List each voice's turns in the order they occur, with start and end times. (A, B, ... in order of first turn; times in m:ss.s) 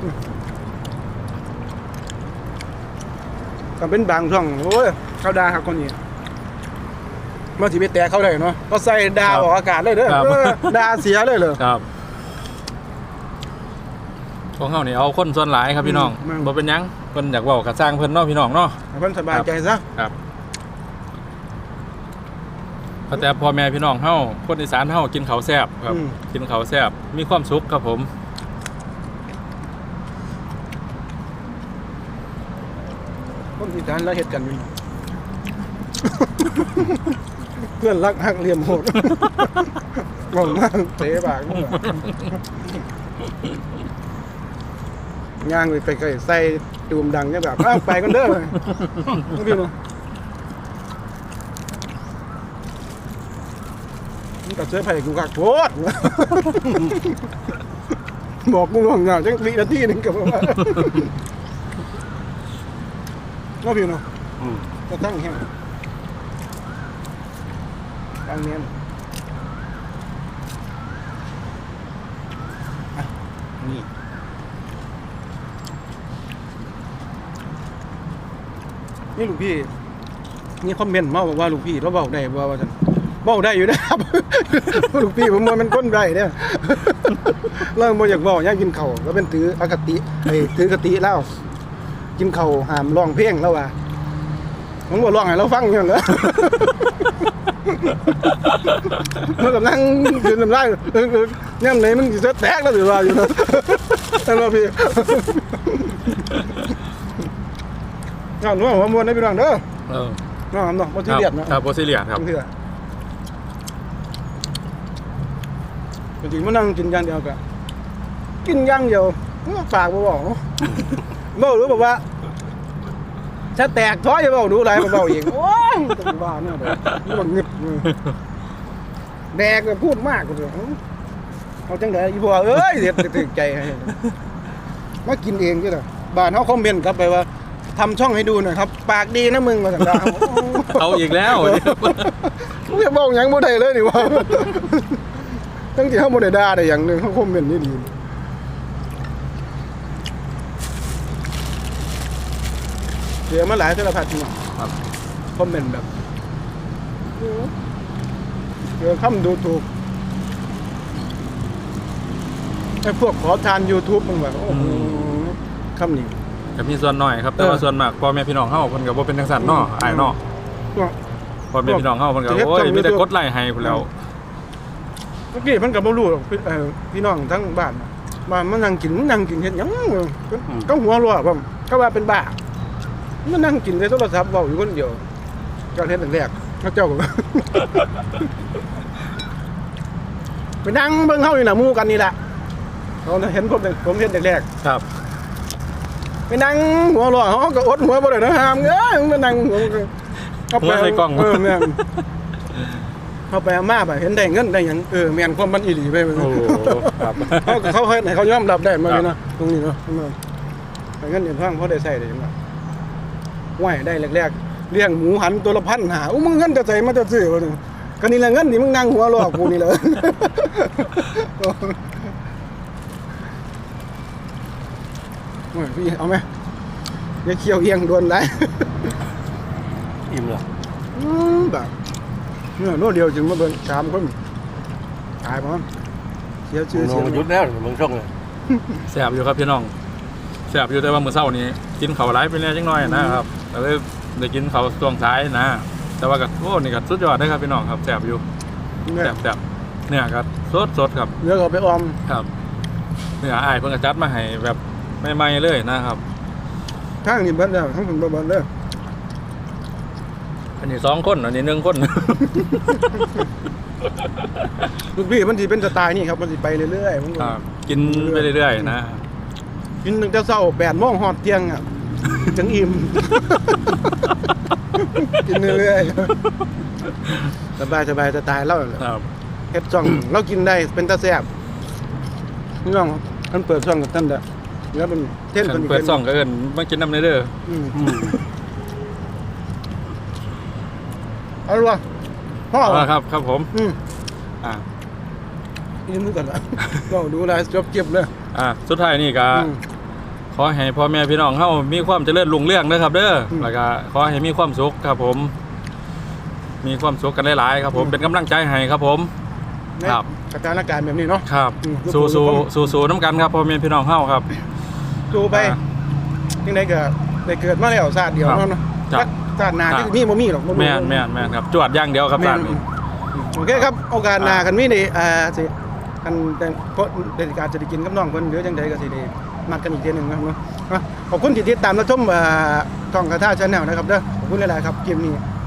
0:03.8-0:06.0 A
0:07.6-0:11.6 A
0:10.1-0:10.8 B
0:11.6-0:11.8 B
0:14.6-0:18.8 B
0:15.8-0:16.5 A
0:18.9-0:19.8 A
0:23.1-0:28.1 B
0:25.9-0:26.2 A
0:33.6-0:34.7 A
0:36.2-0:37.0 A
0:37.6-0:39.7 A
0:40.3-0:42.0 A
0:45.4-0:49.7 A
0:54.4-0:57.2 A
0:58.4-1:01.1 A
1:03.6-1:04.0 A
1:04.4-1:04.6 C
1:04.9-1:05.5 A
1:08.2-1:08.7 A
1:13.0-1:13.8 A
1:19.1-1:19.7 A
1:20.6-1:31.3 A
1:32.2-1:33.7 A
1:34.9-1:36.9 A
1:37.7-1:38.1 A
1:39.2-1:46.2 A
1:48.4-1:49.6 A
1:49.9-1:50.2 B
1:50.5-1:51.6 A
1:51.1-1:52.2 B
1:52.1-1:52.5 A
1:56.2-1:57.4 A
1:58.4-2:00.7 A
2:01.3-2:02.0 A
2:03.5-2:07.9 A
2:09.3-2:10.8 A
2:11.7-2:13.9 A
2:15.0-2:25.2 A
2:20.7-2:22.1 B
2:25.7-2:27.9 A
2:33.3-2:34.4 A
2:35.3-2:35.9 A
2:37.2-2:37.5 A
2:38.8-2:39.6 A
2:42.8-2:46.1 A
2:44.5-2:45.0 B
2:46.6-2:50.2 B
2:49.4-2:50.2 A
2:51.5-2:53.9 B
2:51.6-2:53.0 A
2:55.3-3:02.4 A
3:03.2-3:05.0 A
3:05.7-3:07.7 A
3:10.6-3:12.2 A
3:13.0-3:14.4 A
3:16.3-3:19.9 A
3:20.5-3:21.8 A
3:20.6-3:21.9 B
3:23.3-3:30.2 A
3:26.2-3:27.6 B
3:31.0-3:32.3 A
3:33.6-3:42.1 A
3:45.5-3:46.3 A
3:47.2-3:48.9 A
3:50.1-3:50.4 C
3:50.9-3:51.7 A
3:52.6-3:54.2 A
3:55.2-3:55.6 A
3:56.5-3:57.2 A
3:56.7-3:58.1 C
3:58.9-3:59.7 B
4:00.5-4:08.2 B
4:02.8-4:03.2 A
4:08.8-4:09.1 A
4:09.0-4:11.1 B
4:11.2-4:12.0 A
4:13.2-4:16.0 B
4:17.0-4:18.5 A
4:20.6-4:22.8 B
4:24.9-4:28.3 A
4:27.2-4:29.0 B
4:29.8-4:31.6 A
4:32.2-4:33.8 A
4:35.0-4:36.1 A
4:37.6-4:38.8 A
4:38.8-4:39.0 B
4:39.5-4:41.3 A
4:42.6-4:46.0 A
4:45.4-4:47.3 B
4:47.4-4:47.8 A
4:47.8-4:48.2 C
4:51.4-4:51.8 A
4:52.5-4:52.9 A
4:52.6-4:53.5 B
4:55.8-4:58.1 A
4:58.3-4:59.5 B
4:59.3-4:59.6 A
5:00.3-5:05.3 B
5:06.6-5:09.1 B
5:09.8-5:12.5 A
5:11.3-5:14.3 B
5:15.1-5:15.6 A
5:15.3-5:15.6 B
5:16.4-5:21.3 A
5:18.2-5:19.1 B
5:20.5-5:22.6 B
5:22.2-5:22.6 A
5:23.2-5:35.2 A